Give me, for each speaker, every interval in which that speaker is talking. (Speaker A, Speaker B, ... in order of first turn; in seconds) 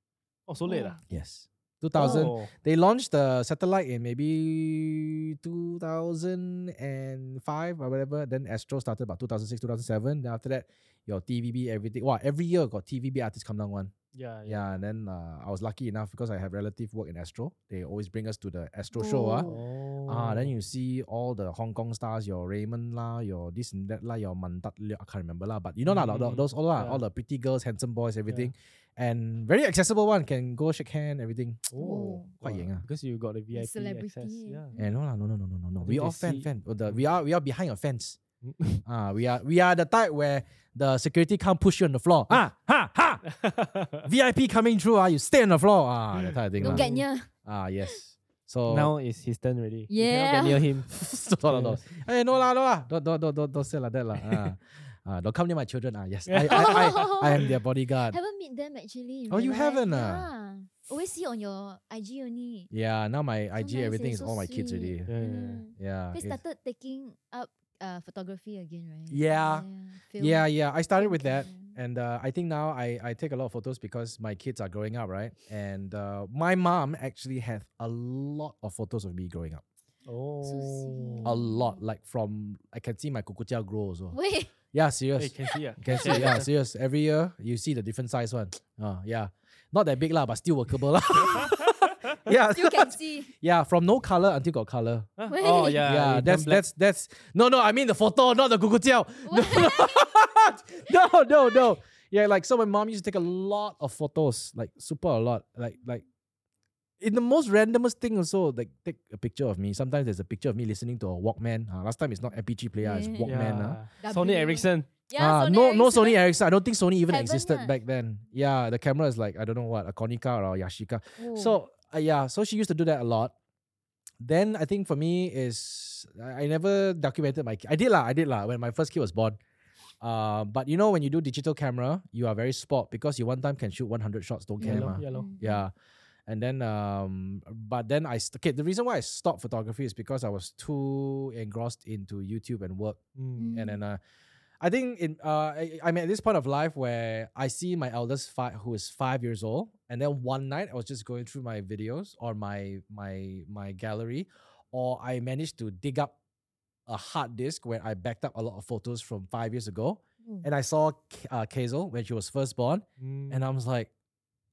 Speaker A: 0.5-1.0, 1.9-2.5, 14.1-14.8, 19.4-20.5, 25.8-27.0, 31.7-34.7, 35.8-37.0, 38.4-38.8, 43.2-44.1, 46.3-47.0, 48.7-50.9, 51.4-52.0, 54.2-54.5, 56.2-57.2, 65.1-65.6, 80.0-81.3, 85.2-86.5, 95.2-96.6, 113.2-114.9, 134.6-135.3, 143.2-143.6, 163.0-163.5
Speaker B: 0.7-1.0, 18.9-19.6, 31.8-32.3, 33.5-34.9, 46.6-47.3, 49.9-50.7, 56.5-62.7, 63.5-71.8, 80.4-81.8, 84.1-84.5, 85.9-86.3, 92.5-93.3, 95.3-95.8, 99.3-100.1, 112.8-113.3, 114.0-116.2, 117.1-117.7, 121.2-121.6, 134.6-135.6, 143.4-143.8
Speaker C: 1.1-13.9, 14.5-19.5, 20.1-31.7, 32.4-32.8, 34.8-38.2, 38.8-43.2, 44.0-48.9, 50.9-58.2, 59.3-60.3, 62.7-65.1, 65.8-66.4, 69.1-69.7, 70.2-79.6, 81.2-84.2, 84.7-95.1, 95.8-106.0, 107.0-113.8, 115.2-123.3, 124.2-129.4, 130.0-135.7, 136.3-143.0, 143.5-144.0, 144.6-156.1, 156.9-163.9